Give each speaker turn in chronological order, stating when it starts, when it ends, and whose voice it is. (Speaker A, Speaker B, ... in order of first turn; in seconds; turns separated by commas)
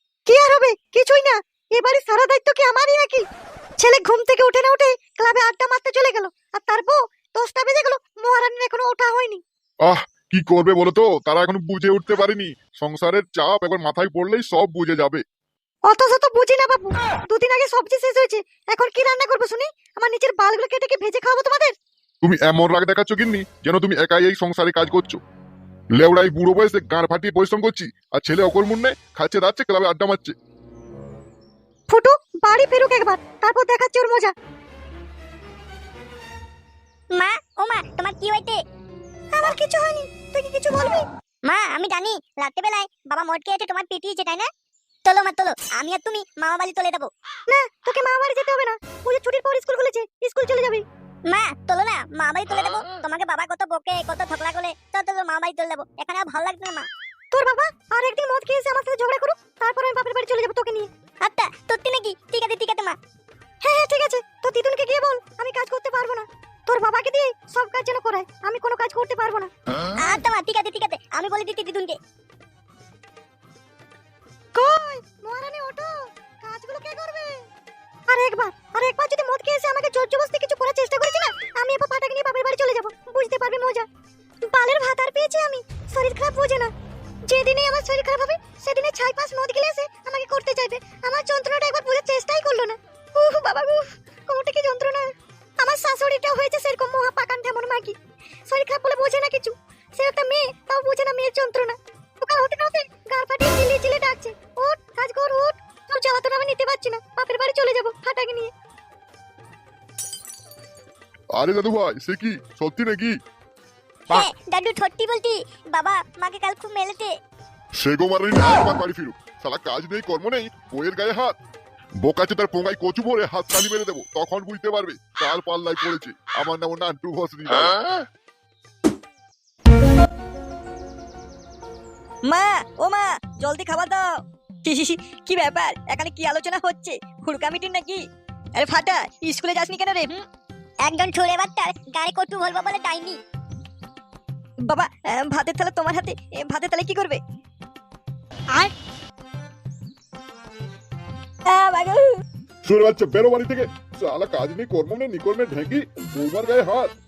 Speaker A: 0.2-3.2, Speaker A: 3.8-9.4, Speaker B: 9.8-15.2, Speaker A: 15.9-21.7, Speaker B: 22.2-25.2, Speaker B: 25.9-30.3, Speaker A: 31.9-34.3, Speaker C: 37.1-38.6, Speaker A: 39.3-41.0, Speaker C: 41.4-44.5, Speaker C: 45.0-47.1, Speaker A: 47.5-50.8, Speaker C: 51.3-56.9, Speaker A: 57.3-60.9, Speaker C: 61.2-63.0, Speaker A: 63.6-69.5, Speaker C: 70.0-72.0, Speaker A: 74.5-77.4, Speaker A: 78.1-83.9, Speaker A: 84.4-86.7, Speaker A: 87.3-92.8, Speaker D: 93.2-93.7, Speaker A: 93.3-93.7, Speaker A: 94.3-98.0, Speaker A: 98.5-108.5, Speaker B: 111.3-113.1, Speaker C: 114.1-117.1, Speaker B: 117.8-121.4, Speaker B: 122.0-127.9, Speaker D: 132.2-134.1, Speaker D: 134.6-138.0, Speaker D: 138.6-140.2, Speaker C: 140.8-143.2, Speaker D: 144.7-147.2, Speaker D: 151.4-152.2, Speaker B: 152.6-156.9